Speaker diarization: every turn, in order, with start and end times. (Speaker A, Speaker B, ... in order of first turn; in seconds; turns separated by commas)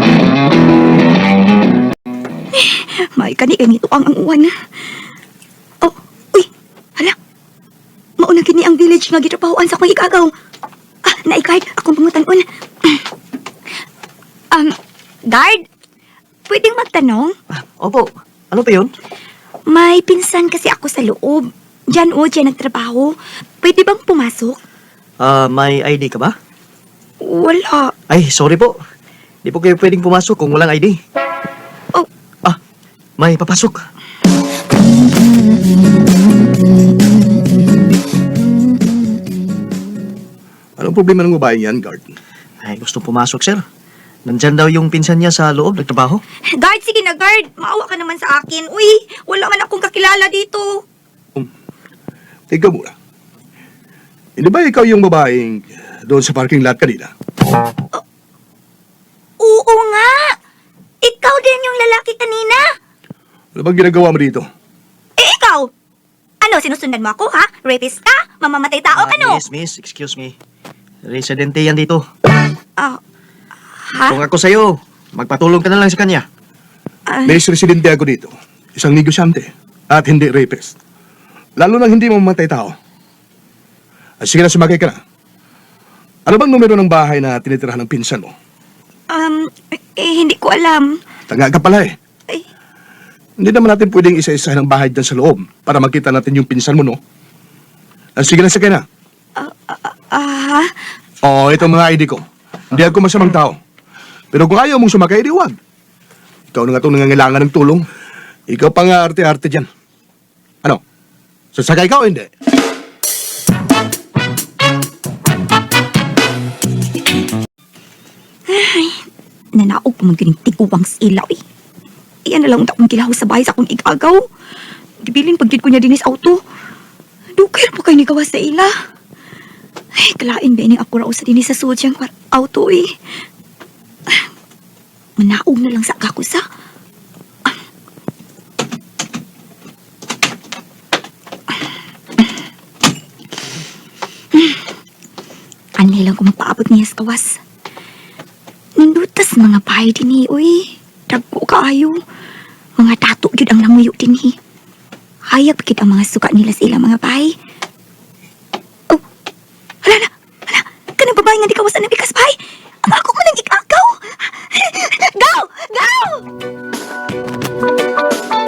Speaker A: 2.5-4.5, Speaker A: 5.8-7.1, Speaker A: 8.2-10.3, Speaker A: 11.0-13.1, Speaker A: 15.3-15.6, Speaker A: 16.5-17.4, Speaker B: 17.5-18.9, Speaker A: 19.7-24.6, Speaker B: 25.2-26.3, Speaker A: 27.2-27.9, Speaker B: 28.1-28.8, Speaker B: 29.4-31.0, Speaker B: 33.2-33.8, Speaker C: 40.8-42.1, Speaker B: 42.6-43.6, Speaker B: 44.2-46.2, Speaker A: 46.5-50.8, Speaker C: 52.5-52.9, Speaker C: 54.4-57.1, Speaker A: 59.4-60.3, Speaker A: 61.0-62.7, Speaker C: 63.5-64.5, Speaker A: 65.2-65.7, Speaker A: 66.4-69.4, Speaker B: 68.9-70.3, Speaker B: 71.0-72.0, Speaker A: 73.8-74.2, Speaker B: 74.1-76.2, Speaker A: 77.1-77.4, Speaker C: 77.2-80.7, Speaker C: 81.6-82.7, Speaker C: 84.2-85.0, Speaker C: 86.3-88.3, Speaker A: 89.1-91.0, Speaker C: 91.3-91.9, Speaker C: 93.4-97.0, Speaker C: 98.2-98.8, Speaker A: 99.4-100.7, Speaker C: 101.2-103.6, Speaker C: 104.3-105.5, Speaker C: 106.5-107.8, Speaker C: 108.5-109.7, Speaker C: 111.5-112.3, Speaker A: 118.5-119.0, Speaker A: 119.5-121.4, Speaker A: 122.2-124.2, Speaker A: 125.0-126.4, Speaker A: 127.3-128.7, Speaker A: 129.9-132.9, Speaker A: 135.2-136.4, Speaker A: 144.3-144.6, Speaker A: 145.8-147.4, Speaker A: 148.8-152.0, Speaker A: 152.8-154.4, Speaker A: 155.3-157.3, Speaker A: 159.8-166.2